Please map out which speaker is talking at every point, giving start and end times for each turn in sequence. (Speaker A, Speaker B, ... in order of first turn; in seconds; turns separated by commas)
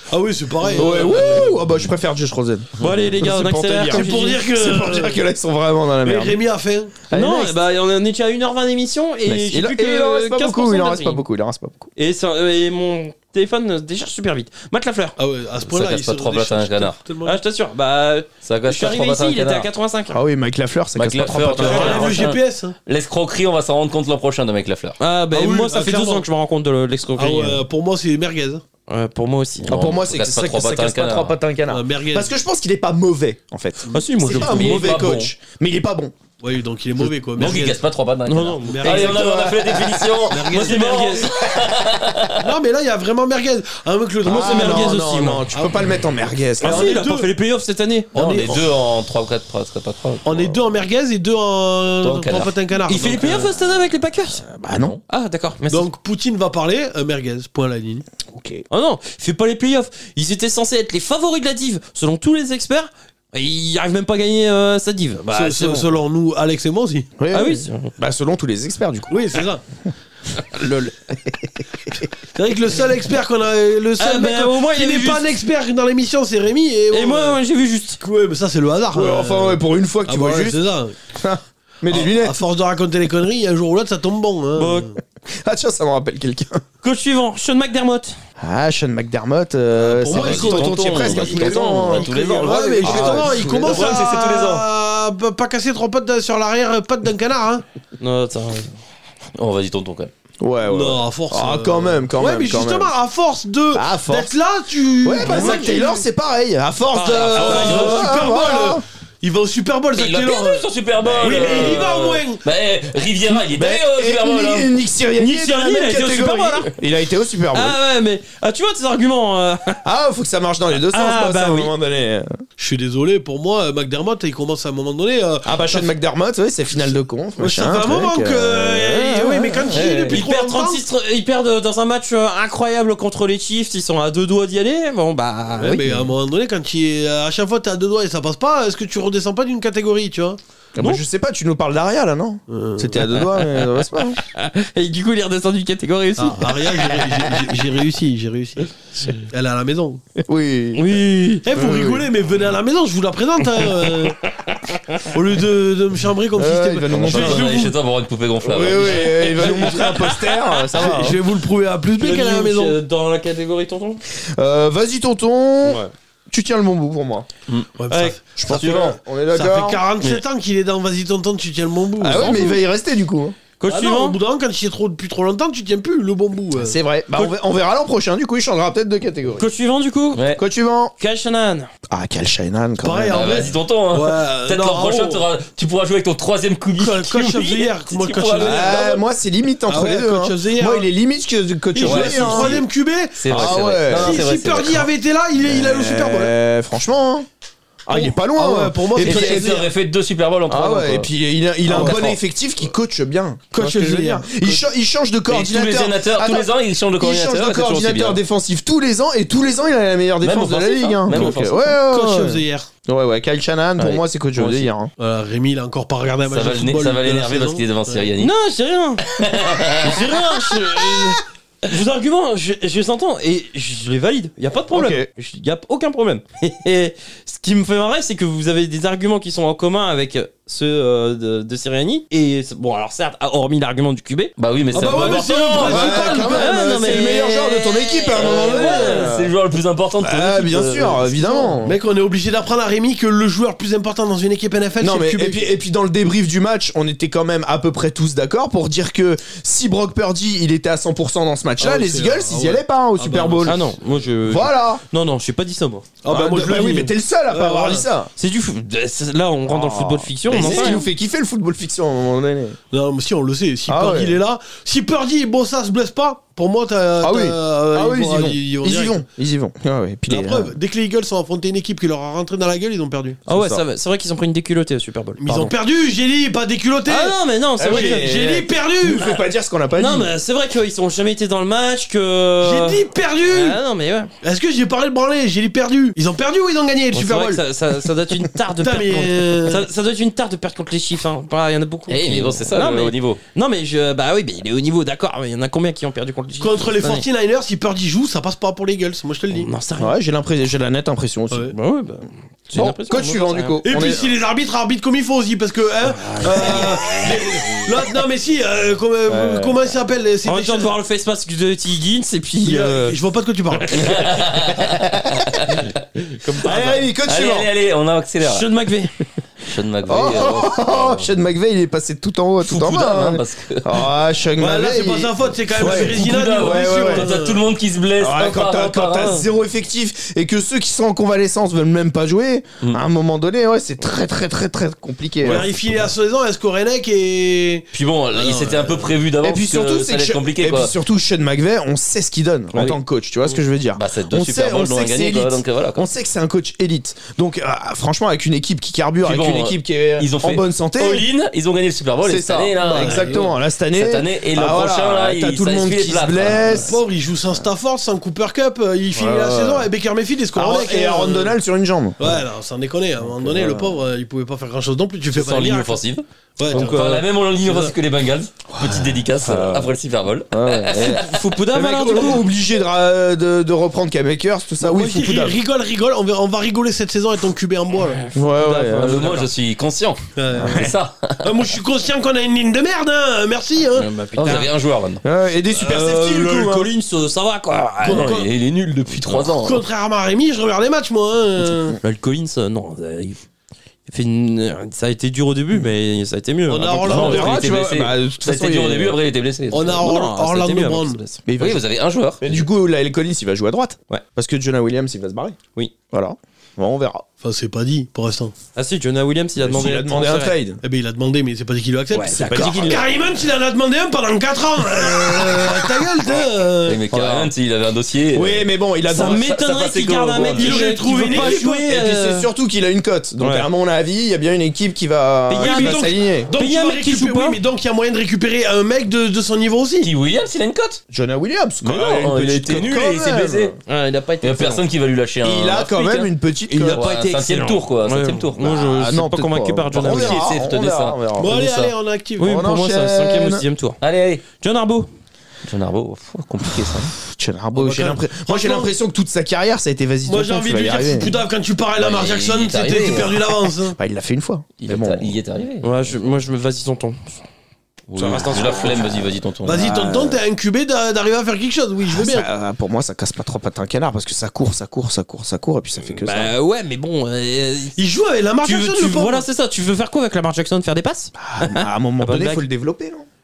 Speaker A: 0.1-1.6, Speaker B: 0.6-1.4, Speaker C: 0.7-6.4, Speaker B: 2.8-4.4, Speaker A: 3.9-5.2, Speaker A: 6.0-7.0, Speaker C: 7.1-7.5, Speaker B: 7.1-11.2, Speaker C: 9.2-11.9, Speaker B: 11.9-15.2, Speaker A: 15.2-17.4, Speaker D: 15.6-17.0, Speaker B: 17.2-20.2, Speaker D: 18.4-19.7, Speaker C: 20.1-22.3, Speaker D: 20.9-25.0, Speaker A: 21.6-22.8, Speaker B: 21.6-22.1, Speaker B: 25.0-27.6, Speaker A: 25.3-26.2, Speaker A: 27.2-28.6, Speaker B: 28.9-29.7, Speaker D: 29.6-31.3, Speaker C: 29.6-36.1, Speaker A: 31.7-32.3, Speaker A: 33.8-34.9, Speaker B: 33.9-35.0, Speaker D: 34.4-35.3, Speaker A: 36.4-37.8, Speaker D: 37.3-42.5, Speaker B: 38.2-39.2, Speaker A: 38.6-39.2, Speaker C: 39.0-40.3, Speaker A: 40.3-41.0, Speaker B: 40.4-41.3, Speaker A: 42.4-46.0, Speaker C: 44.2-46.9, Speaker B: 44.3-45.5, Speaker A: 46.6-47.3, Speaker B: 46.6-48.1, Speaker A: 48.1-48.7, Speaker D: 48.1-50.6, Speaker A: 50.2-53.5, Speaker D: 52.0-52.5, Speaker B: 52.9-54.4, Speaker C: 54.4-54.9, Speaker D: 54.7-55.0, Speaker B: 55.1-55.9, Speaker A: 55.7-58.0, Speaker C: 58.3-58.6, Speaker B: 58.7-65.8, Speaker A: 65.3-67.1, Speaker C: 67.2-69.1, Speaker B: 67.3-67.9, Speaker A: 69.1-69.6, Speaker C: 70.3-72.1, Speaker A: 72.3-77.4, Speaker B: 74.0-75.3, Speaker B: 76.9-78.0, Speaker A: 78.0-80.9, Speaker C: 78.9-80.6, Speaker C: 81.1-82.4, Speaker A: 81.9-85.0, Speaker B: 84.5-84.9, Speaker C: 85.2-86.6, Speaker B: 86.8-88.2, Speaker C: 88.4-94.0, Speaker A: 89.7-97.6, Speaker D: 90.1-94.7, Speaker B: 98.0-98.7, Speaker D: 99.3-100.1, Speaker C: 100.4-102.9, Speaker A: 100.7-106.0, Speaker C: 103.7-104.3, Speaker C: 105.0-108.8, Speaker B: 105.2-105.8, Speaker B: 106.9-108.1, Speaker D: 107.2-108.0, Speaker A: 107.4-112.4, Speaker D: 110.0-114.7, Speaker C: 111.0-111.8, Speaker C: 113.3-117.8, Speaker B: 115.2-116.7, Speaker B: 117.5-119.8, Speaker C: 119.8-122.4, Speaker B: 120.9-121.7, Speaker A: 122.6-125.9, Speaker C: 125.4-130.2, Speaker A: 127.4-130.8, Speaker B: 129.7-136.0, Speaker A: 135.6-140.4, Speaker C: 140.8-144.2, Speaker A: 142.5-143.0, Speaker B: 143.0-147.4, Speaker A: 146.2-150.0, Speaker C: 150.2-151.0, Speaker B: 150.7-151.5, Speaker A: 151.4-154.2, Speaker C: 151.5-152.1, Speaker B: 153.6-155.1, Speaker A: 155.1-157.7, Speaker C: 156.3-157.6, Speaker D: 156.9-159.4, Speaker C: 158.4-161.2, Speaker B: 158.5-161.1, Speaker A: 160.7-162.8, Speaker B: 162.0-164.0, Speaker C: 164.2-167.3, Speaker B: 165.6-165.9, Speaker A: 167.8-172.4, Speaker B: 167.9-168.9, Speaker C: 168.3-169.8, Speaker C: 172.0-173.3, Speaker B: 172.1-172.6, Speaker B: 173.6-174.2, Speaker A: 173.7-176.8, Speaker C: 176.6-179.4, Speaker B: 179.4-180.3, Speaker D: 180.1-180.4, Speaker C: 180.4-180.9, Speaker B: 181.0-181.7, Speaker C: 181.9-183.5, Speaker A: 182.8-185.2, Speaker D: 183.1-189.0, Speaker A: 186.8-188.8, Speaker C: 188.4-192.6, Speaker A: 189.7-190.9, Speaker A: 191.7-196.3, Speaker D: 191.8-192.6, Speaker D: 193.2-194.9, Speaker C: 193.2-194.2, Speaker C: 195.4-197.2, Speaker C: 197.9-199.6, Speaker A: 197.9-199.7, Speaker D: 199.0-201.1, Speaker C: 200.5-214.9, Speaker D: 201.7-202.2, Speaker A: 201.7-202.0, Speaker B: 203.6-204.3, Speaker A: 203.6-204.1, Speaker D: 205.3-208.2, Speaker D: 210.2-211.7, Speaker A: 211.9-212.7, Speaker D: 213.8-214.7, Speaker A: 215.0-218.1, Speaker D: 216.3-218.3, Speaker B: 218.2-239.1, Speaker D: 219.1-220.1, Speaker C: 220.6-221.1, Speaker C: 224.7-225.1, Speaker D: 234.4-236.2, Speaker A: 234.7-236.9, Speaker C: 235.6-239.3, Speaker D: 238.1-241.5, Speaker C: 240.0-241.8, Speaker A: 241.6-245.5, Speaker C: 244.8-253.7, Speaker A: 251.6-253.4, Speaker D: 253.2-253.5, Speaker B: 253.4-255.9, Speaker C: 254.2-254.8, Speaker A: 256.0-257.9, Speaker C: 256.1-258.1, Speaker B: 258.2-260.9, Speaker C: 259.5-262.6, Speaker A: 260.3-260.8, Speaker A: 262.7-269.0, Speaker C: 263.7-264.2, Speaker C: 267.0-270.5, Speaker A: 270.1-273.2, Speaker B: 273.2-275.5, Speaker C: 273.3-273.6, Speaker A: 275.2-279.2, Speaker B: 276.9-278.1, Speaker C: 277.6-280.1, Speaker B: 279.7-284.1, Speaker A: 282.4-283.6, Speaker A: 284.2-287.4, Speaker B: 286.9-297.0, Speaker A: 288.6-289.7, Speaker D: 291.9-293.2, Speaker A: 296.4-299.5, Speaker B: 299.3-299.9, Speaker C: 299.8-301.5, Speaker B: 301.5-303.6, Speaker C: 302.5-304.1, Speaker A: 303.6-310.7, Speaker B: 305.8-307.8, Speaker C: 309.1-309.6, Speaker B: 310.2-313.0, Speaker A: 312.4-313.9, Speaker B: 313.5-314.5, Speaker D: 313.7-315.6, Speaker C: 314.5-315.6, Speaker B: 315.5-316.9, Speaker C: 316.4-317.5, Speaker D: 317.1-318.5, Speaker B: 318.2-318.9, Speaker D: 319.4-321.1, Speaker C: 319.9-327.1, Speaker D: 322.4-323.9, Speaker A: 324.4-327.4, Speaker D: 325.6-329.3, Speaker C: 328.0-335.5, Speaker A: 335.2-338.9, Speaker D: 337.7-340.7, Speaker C: 339.2-351.1, Speaker D: 343.7-345.9, Speaker D: 349.0-356.7, Speaker C: 352.0-356.8, Speaker A: 352.7-353.3, Speaker A: 356.5-361.4, Speaker C: 358.9-359.7, Speaker C: 360.3-362.2, Speaker A: 362.0-365.8, Speaker C: 363.0-363.8, Speaker D: 365.1-371.2, Speaker A: 366.4-366.9, Speaker B: 366.5-367.1, Speaker A: 367.4-367.7, Speaker C: 368.5-369.7, Speaker C: 370.3-375.4, Speaker B: 370.7-372.2, Speaker A: 374.6-378.0, Speaker B: 377.8-379.3, Speaker C: 378.1-379.3, Speaker D: 378.7-381.5, Speaker A: 380.1-383.9, Speaker C: 380.3-380.7, Speaker B: 383.7-384.5, Speaker D: 383.8-385.0, Speaker C: 384.2-386.7, Speaker B: 385.5-388.2, Speaker A: 387.8-388.3, Speaker D: 387.8-389.6, Speaker A: 389.0-391.8, Speaker B: 391.8-393.2, Speaker B: 393.9-397.4, Speaker A: 396.5-397.4, Speaker D: 396.8-399.8, Speaker C: 396.9-399.0, Speaker A: 399.5-401.0, Speaker B: 399.6-401.2, Speaker C: 401.2-401.6, Speaker D: 401.4-402.2, Speaker C: 402.2-405.4, Speaker C: 405.9-407.0, Speaker A: 407.2-408.3, Speaker B: 408.5-410.3, Speaker C: 409.4-410.6, Speaker A: 410.6-416.8, Speaker B: 411.9-412.8, Speaker C: 411.9-412.8, Speaker D: 416.6-420.7, Speaker C: 416.9-417.3, Speaker C: 418.1-419.2, Speaker B: 418.9-422.3, Speaker C: 420.2-426.3, Speaker A: 420.2-421.6, Speaker B: 423.2-423.5, Speaker B: 425.3-427.4, Speaker A: 425.4-429.9, Speaker D: 429.8-430.8, Speaker C: 430.9-433.5, Speaker D: 431.6-433.5, Speaker B: 433.7-434.6, Speaker D: 434.2-438.6, Speaker C: 435.2-436.8, Speaker B: 436.5-440.2, Speaker C: 438.4-441.3, Speaker D: 439.7-441.7, Speaker A: 441.1-442.4, Speaker B: 442.2-444.9, Speaker C: 442.2-443.4, Speaker D: 443.8-444.2, Speaker D: 445.4-446.9, Speaker C: 447.1-451.1, Speaker A: 447.5-448.7, Speaker A: 450.1-453.8, Speaker D: 451.8-453.3, Speaker C: 453.8-455.1, Speaker D: 454.6-456.1, Speaker B: 455.6-457.2, Speaker D: 457.9-459.7, Speaker B: 457.9-459.1, Speaker C: 458.3-458.9, Speaker A: 459.4-462.3, Speaker C: 459.5-460.2, Speaker C: 461.9-466.3, Speaker B: 466.0-467.8, Speaker A: 467.8-469.2, Speaker B: 468.4-472.4, Speaker C: 471.2-473.1